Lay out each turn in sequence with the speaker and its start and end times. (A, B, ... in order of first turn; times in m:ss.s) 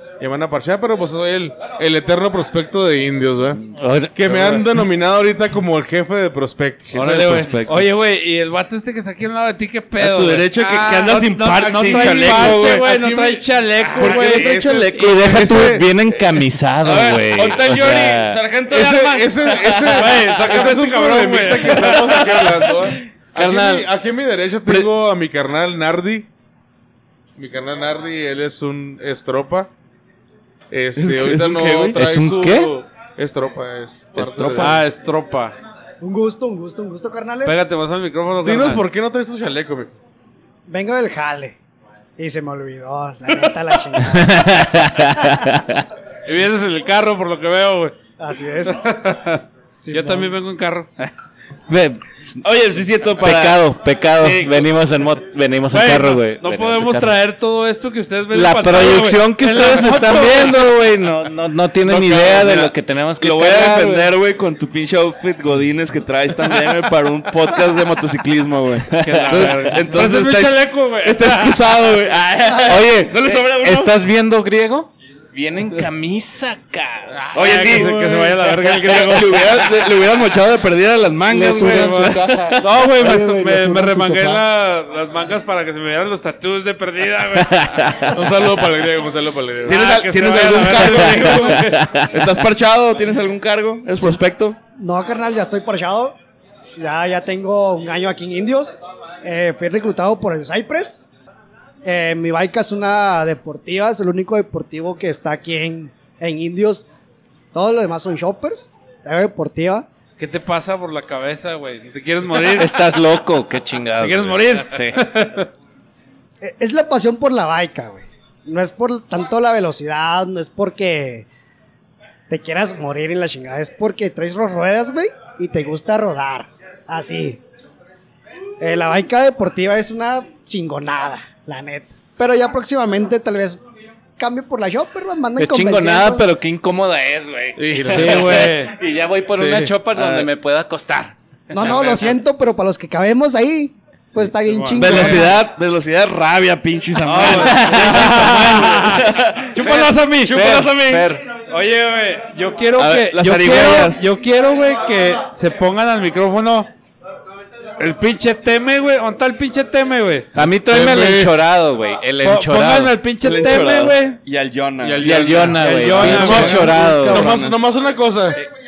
0:00.2-0:03.6 A
0:03.7-0:04.7 B
0:04.1-0:07.5 A
0:06.9-0:07.8 C
0:07.6-0:15.4 D
0:10.0-0:12.9 C
0:10.6-0:15.9 A
0:13.9-0:14.9 C
0:14.9-0:18.4 B
0:16.8-0:20.1 C
0:17.4-0:18.0 D
0:18.7-0:26.3 A
0:18.7-0:22.6 D
0:23.3-0:23.8 B
0:27.4-0:29.7 A
0:30.7-0:34.8 A
0:31.0-0:32.0 C
0:31.9-0:32.7 B
0:34.1-0:34.8 C
0:34.6-0:35.5 D
0:36.0-0:37.6 E
0:37.4-0:38.8 D
0:38.4-0:40.0 A
0:40.7-0:41.6 E
0:42.2-0:44.4 E
0:44.1-0:45.8 B
0:46.2-0:47.9 D
0:48.2-0:48.9 E
0:48.8-0:51.1 D
0:49.8-0:50.3 E
0:51.7-0:52.0 B
0:52.4-0:53.6 C
0:53.2-0:57.2 B
0:54.2-0:54.7 C
0:55.7-1:00.6 D
0:58.3-1:04.1 B
1:01.8-1:14.0 C
1:09.0-1:09.7 B
1:09.0-1:11.8 D
1:12.6-1:17.2 B
1:17.1-1:18.4 A
1:17.3-1:24.2 C
1:17.3-1:19.7 D
1:21.3-1:24.4 B
1:21.4-1:27.9 D
1:27.8-1:28.0 C
1:28.1-1:29.8 A
1:29.6-1:34.6 C
1:29.7-1:32.0 D
1:34.8-1:36.1 E
1:36.8-1:41.0 E
1:41.8-1:46.8 E
1:47.5-1:49.9 E
1:50.2-1:52.8 D
1:52.6-1:55.0 B
1:54.0-1:55.5 D
1:56.4-2:01.2 E
2:02.3-2:07.4 E
2:08.6-2:13.6 E
2:14.2-2:16.2 E
2:15.4-2:21.8 B
2:17.6-2:18.4 A
2:17.8-2:18.7 D
2:19.3-2:20.3 A
2:21.5-2:25.4 E
2:24.5-2:25.2 D
2:24.7-2:31.1 C
2:27.0-2:30.6 D
2:27.3-2:28.6 B
2:30.3-2:31.2 B
2:31.4-2:36.7 D
2:32.8-2:34.0 C
2:37.8-2:40.3 D
2:40.3-2:42.9 B
2:40.7-2:41.3 A
2:42.2-2:44.2 D
2:43.2-2:47.6 C
2:44.9-2:47.5 B
2:45.1-2:46.9 D
2:46.9-2:48.4 A